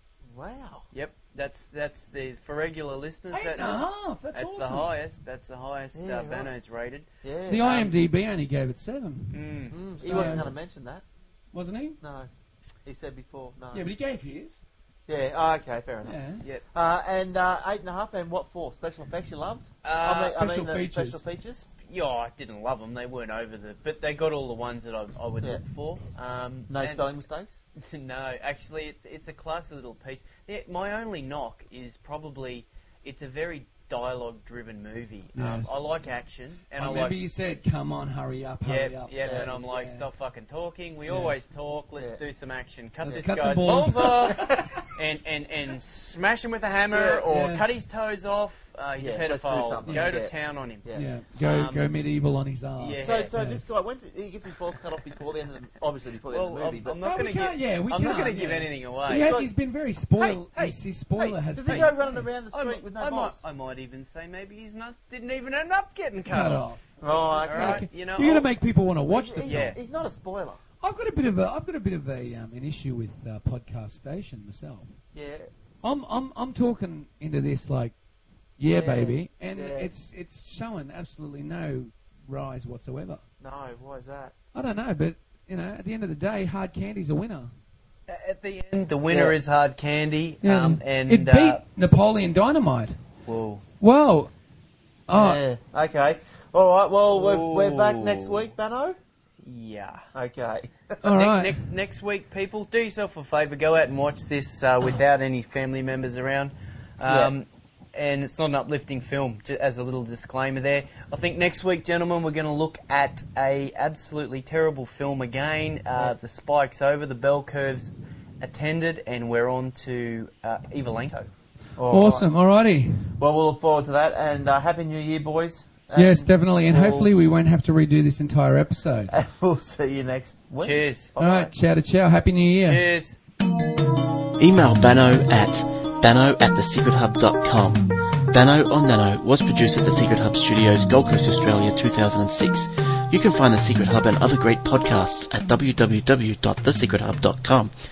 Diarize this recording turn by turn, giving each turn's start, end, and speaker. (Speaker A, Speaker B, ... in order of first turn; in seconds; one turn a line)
Speaker A: 0.3-0.8
Speaker B: 0.9-7.0
Speaker C: 3.3-4.9
Speaker A: 5.9-6.5
Speaker A: 7.2-7.9
Speaker C: 7.5-9.4
Speaker B: 9.3-10.5
Speaker A: 9.7-11.0
Speaker C: 10.0-10.5
Speaker C: 11.5-12.0
Speaker A: 12.0-12.3
Speaker A: 12.8-13.9
Speaker C: 13.7-14.6
Speaker A: 15.1-21.7
Speaker C: 16.0-16.4
Speaker B: 19.8-20.4
Speaker C: 20.3-21.2
Speaker B: 21.8-27.1
Speaker A: 26.7-27.6
Speaker B: 27.8-37.4
Speaker C: 35.3-35.9
Speaker C: 36.8-40.1
Speaker B: 38.6-50.9
Speaker A: 39.2-39.5
Speaker C: 41.1-41.4
Speaker C: 43.0-44.6
Speaker A: 43.0-44.7
Speaker A: 46.9-47.2
Speaker C: 47.3-47.7
Speaker A: 49.0-51.1
Speaker C: 49.8-50.2
Speaker C: 50.9-53.7
Speaker B: 51.4-51.9
Speaker B: 52.8-53.3
Speaker A: 53.0-57.0
Speaker B: 56.3-59.3
Speaker C: 57.0-62.3
Speaker A: 59.1-59.5
Speaker B: 60.1-61.9
Speaker A: 61.5-63.4
Speaker B: 62.5-66.8
Speaker C: 66.2-69.8
Speaker A: 67.0-67.9
Speaker B: 67.4-68.5
Speaker A: 69.1-70.6
Speaker B: 69.4-69.8
Speaker C: 70.8-74.9
Speaker A: 75.1-75.5
Speaker C: 75.8-77.9
Speaker C: 78.6-83.2
Speaker A: 78.6-79.9
Speaker A: 83.4-84.3
Speaker C: 84.5-87.5
Speaker B: 88.1-91.6
Speaker A: 89.1-89.4
Speaker C: 90.4-93.0
Speaker B: 93.2-93.6
Speaker C: 93.8-94.3
Speaker C: 95.1-95.4
Speaker A: 95.1-99.0
Speaker B: 97.1-98.5
Speaker B: 99.4-100.0
Speaker A: 100.1-101.0
Speaker C: 101.0-101.6
Speaker B: 101.1-121.3
Speaker A: 107.0-107.3
Speaker A: 121.8-122.3
Speaker C: 121.9-123.0
Speaker A: 123.2-127.1
Speaker C: 125.9-129.1
Speaker A: 129.1-131.5
Speaker B: 130.6-131.1
Speaker C: 131.2-132.8
Speaker B: 132.6-133.2
Speaker D: 134.4-147.7